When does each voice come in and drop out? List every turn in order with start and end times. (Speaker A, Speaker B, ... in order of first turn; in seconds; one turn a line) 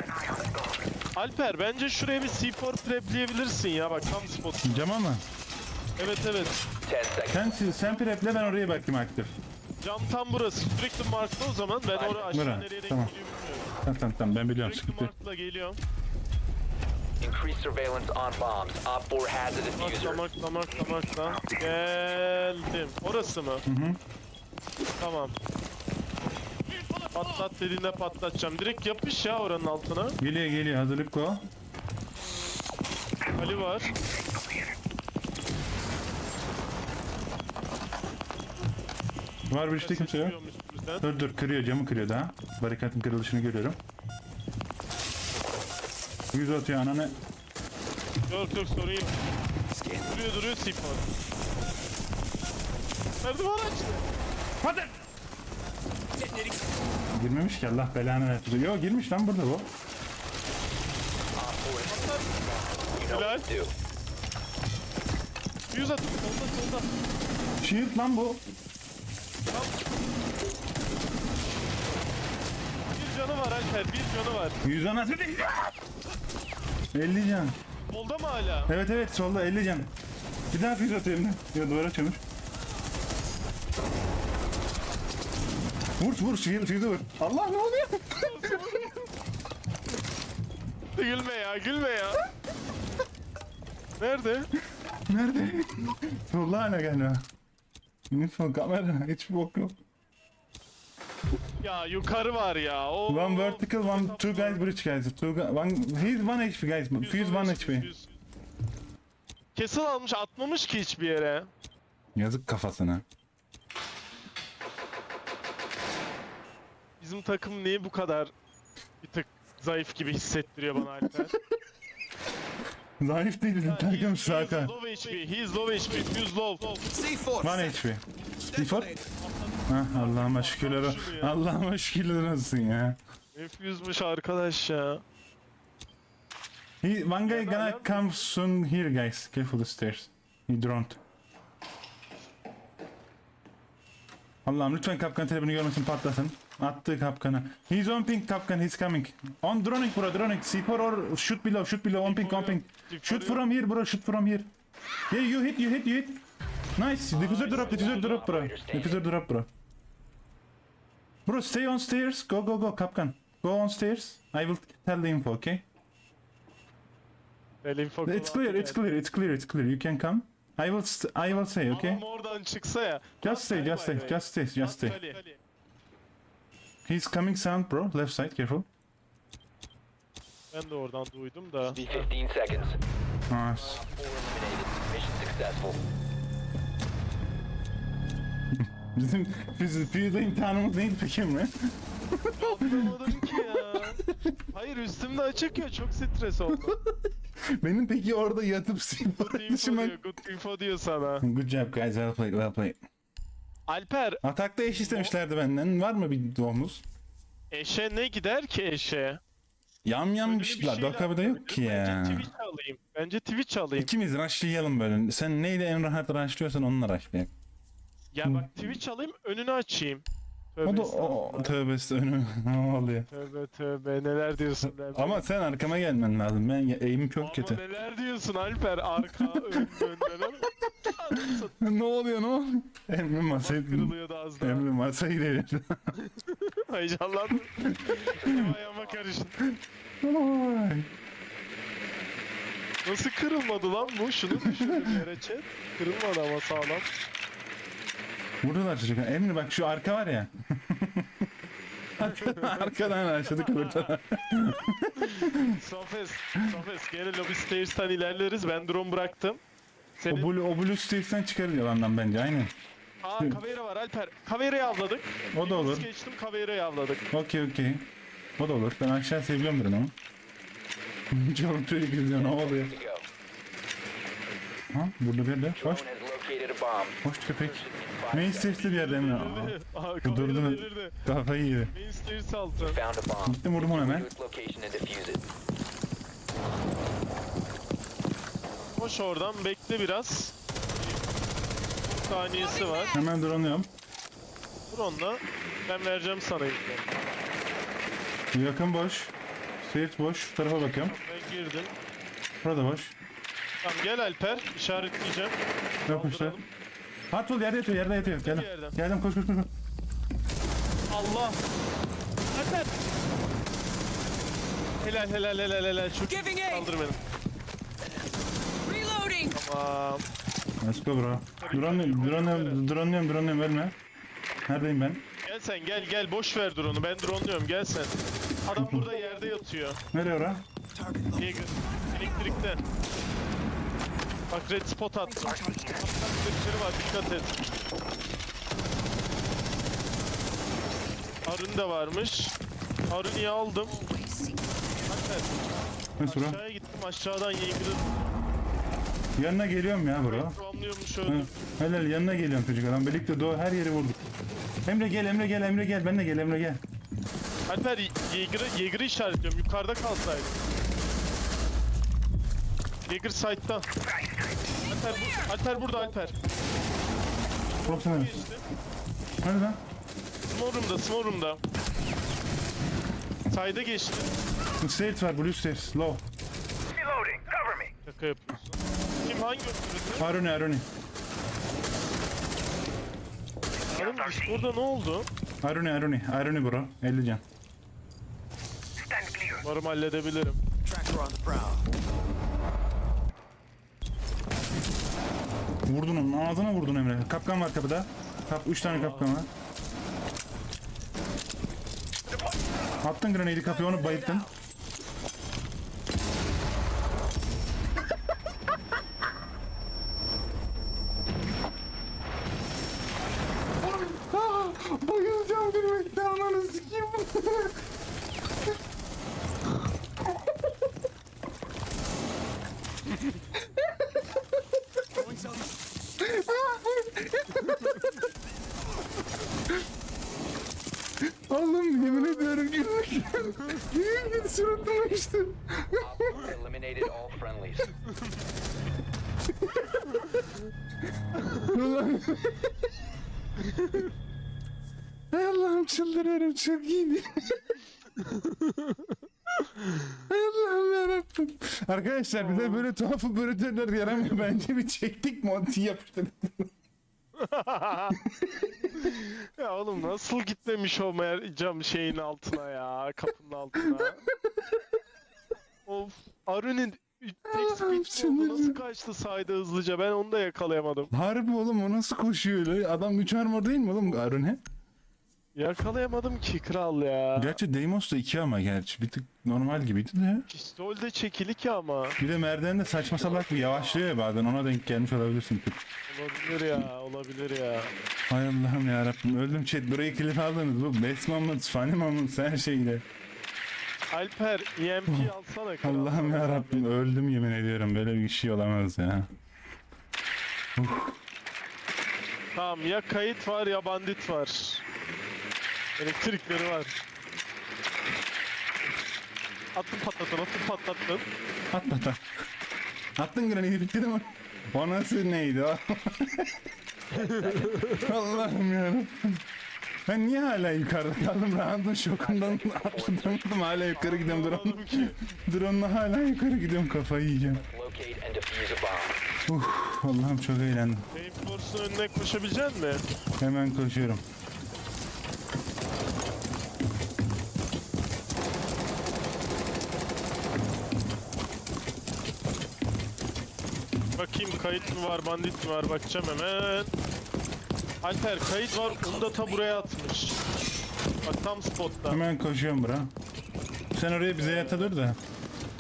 Speaker A: 1.1-4.9
Speaker B: 4.6-5.2
Speaker A: 6.0-6.6
Speaker C: 6.8-7.6
Speaker B: 7.3-9.3
Speaker A: 7.7-8.4
Speaker A: 9.8-13.7
Speaker C: 11.9-12.4
Speaker B: 12.3-13.1
Speaker B: 13.8-15.1
Speaker A: 14.3-15.8
Speaker C: 17.2-20.2
Speaker A: 19.8-23.6
Speaker B: 23.6-24.0
Speaker A: 25.0-25.3
Speaker A: 27.1-30.2
Speaker B: 30.2-31.5
Speaker A: 33.4-33.9
Speaker B: 39.5-40.4
Speaker A: 39.8-41.1
Speaker B: 41.0-43.8
Speaker B: 46.3-47.2
Speaker A: 48.3-49.2
Speaker A: 50.0-51.1
Speaker A: 53.2-54.0
Speaker B: 54.6-55.0
Speaker B: 57.1-59.7
Speaker C: 61.3-63.7
Speaker A: 61.9-62.3
Speaker A: 63.0-63.5
Speaker A: 65.7-66.9
Speaker B: 67.6-68.4
Speaker A: 69.5-69.8
Speaker A: 72.9-74.6
Speaker B: 74.6-75.7
Speaker B: 76.9-77.5
Speaker A: 77.9-78.7
Speaker B: 78.7-79.9
Speaker B: 80.5-82.2
Speaker B: 86.0-88.7
Speaker A: 88.2-89.0
Speaker A: 90.9-92.2
Speaker A: 94.0-94.5
Speaker B: 95.1-97.2
Speaker B: 98.1-99.8
Speaker A: 101.6-104.6
Speaker B: 103.1-107.9
Speaker A: 107.0-108.2
Speaker A: 109.5-111.5
Speaker B: 112.1-113.0
Speaker A: 117.0-118.3
Speaker A: 119.0-121.3
Speaker B: 123.0-124.7
Speaker A: 123.6-126.9
Speaker D: 126.9-127.8
Speaker B: 127.4-128.0
Speaker D: 128.5-129.1
Speaker B: 128.5-128.9
Speaker A: 129.2-131.4
Speaker B: 129.7-133.0
Speaker A: 133.3-135.0
Speaker B: 136.8-141.0
Speaker A: 137.2-138.3
Speaker B: 144.4-154.5
Speaker A: 152.0-153.4
Speaker B: 155.1-156.2
Speaker B: 156.8-159.5
Speaker A: 157.1-158.4
Speaker C: 157.3-159.0
Speaker B: 161.2-165.6
Speaker A: 167.6-168.9
Speaker B: 168.1-172.0
Speaker A: 171.7-175.4
Speaker B: 173.2-175.0
Speaker B: 176.8-178.7
Speaker A: 180.5-182.1
Speaker C: 181.7-182.8
Speaker B: 183.3-183.8
Speaker C: 183.6-185.8
Speaker B: 188.5-194.1
Speaker A: 192.4-196.8
Speaker B: 196.5-196.9
Speaker B: 197.5-200.0
Speaker A: 199.1-201.2
Speaker B: 201.2-202.8
Speaker A: 203.7-205.1
Speaker B: 204.2-206.8
Speaker A: 207.5-209.2
Speaker B: 209.8-212.3
Speaker A: 210.2-213.9
Speaker B: 213.8-217.3
Speaker A: 218.1-221.5
Speaker B: 218.2-218.7
Speaker B: 220.6-223.1
Speaker A: 223.1-225.3
Speaker B: 224.6-227.6
Speaker A: 227.2-231.5
Speaker B: 229.2-236.0
Speaker A: 233.4-234.7
Speaker A: 236.0-239.4
Speaker B: 237.6-238.5
Speaker C: 237.9-239.1
Speaker B: 240.0-240.9
Speaker A: 242.8-246.9
Speaker B: 244.3-245.1
Speaker B: 248.4-251.3
Speaker B: 252.0-255.6
Speaker A: 252.1-252.7
Speaker A: 253.3-253.9
Speaker A: 255.0-259.4
Speaker A: 260.0-260.3
Speaker B: 260.1-262.5
Speaker A: 263.0-267.1
Speaker B: 265.3-265.9
Speaker B: 267.1-269.9
Speaker B: 271.1-272.7
Speaker C: 272.1-273.0
Speaker B: 274.7-275.8
Speaker C: 275.6-278.8
Speaker B: 277.0-281.7
Speaker A: 278.6-281.0
Speaker A: 281.7-282.8
Speaker C: 282.6-285.2
Speaker B: 283.2-284.1
Speaker A: 288.7-291.0
Speaker A: 291.8-292.9
Speaker B: 292.9-293.7
Speaker A: 294.7-297.0
Speaker B: 298.3-300.9
Speaker A: 300.8-301.7
Speaker B: 302.4-302.9
Speaker A: 303.6-306.4
Speaker B: 305.9-306.4
Speaker B: 307.1-309.5
Speaker A: 307.9-308.8
Speaker A: 310.9-311.4
Speaker A: 312.3-312.7
Speaker A: 314.8-317.0
Speaker E: 316.1-316.7
Speaker E: 318.6-319.4
Speaker A: 319.3-320.0
Speaker B: 320.6-323.7
Speaker A: 321.4-322.6
Speaker B: 324.4-325.0
Speaker A: 325.2-329.8
Speaker B: 328.5-329.0
Speaker B: 329.9-330.4
Speaker D: 330.7-331.5
Speaker A: 331.1-332.6
Speaker A: 334.3-337.4
Speaker E: 335.2-335.8
Speaker A: 341.2-342.3
Speaker A: 342.9-343.8
Speaker E: 343.6-344.9
Speaker A: 344.9-348.1
Speaker B: 346.0-346.4
Speaker B: 349.1-350.4
Speaker A: 350.0-351.5
Speaker B: 351.0-354.0
Speaker B: 354.6-356.6
Speaker A: 357.5-360.4
Speaker A: 362.9-363.6
Speaker A: 364.6-366.2
Speaker A: 367.5-368.4
Speaker B: 367.7-368.2
Speaker B: 369.2-369.6
Speaker A: 370.2-371.4
Speaker A: 373.3-374.1
Speaker B: 374.6-376.0
Speaker D: 376.9-377.3
Speaker A: 377.8-380.2
Speaker B: 380.0-380.7
Speaker A: 383.7-385.1
Speaker D: 383.7-384.3
Speaker B: 385.4-387.2
Speaker D: 388.8-389.4
Speaker A: 389.4-390.4
Speaker D: 390.6-391.6
Speaker B: 395.6-399.3
Speaker A: 398.6-399.2
Speaker B: 402.8-404.3
Speaker B: 413.6-417.6
Speaker D: 425.1-425.4
Speaker B: 426.0-427.8
Speaker B: 431.0-436.3
Speaker C: 434.3-435.0
Speaker C: 435.8-437.7
Speaker B: 441.3-442.5
Speaker A: 443.4-443.9
Speaker B: 445.1-447.5
Speaker A: 448.0-448.8
Speaker A: 449.4-449.9
Speaker B: 450.1-456.5
Speaker A: 452.2-452.7
Speaker A: 457.2-458.0
Speaker B: 458.0-458.4
Speaker A: 458.8-464.0
Speaker A: 465.6-470.9
Speaker B: 467.3-468.6
Speaker B: 470.9-474.4
Speaker A: 475.3-477.4
Speaker B: 477.1-480.3
Speaker A: 480.3-482.0
Speaker B: 482.0-485.6
Speaker C: 482.6-483.8
Speaker A: 485.9-487.7
Speaker B: 488.1-492.8
Speaker A: 493.9-496.7
Speaker B: 494.9-499.1
Speaker B: 500.6-501.0
Speaker A: 502.3-504.6
Speaker A: 505.8-506.7
Speaker A: 509.5-511.1
Speaker B: 511.5-512.0
Speaker B: 513.0-516.4
Speaker C: 516.9-517.7
Speaker A: 516.9-517.9
Speaker B: 517.8-519.2
Speaker B: 519.9-527.4
Speaker C: 522.0-523.3
Speaker A: 523.7-525.0
Speaker C: 527.2-529.0
Speaker B: 529.3-530.9
Speaker A: 530.9-532.8
Speaker B: 533.2-534.0
Speaker A: 543.9-546.7
Speaker A: 547.8-550.2
Speaker A: 551.0-552.0
Speaker B: 551.9-552.9
Speaker B: 553.7-555.0
Speaker A: 554.1-554.7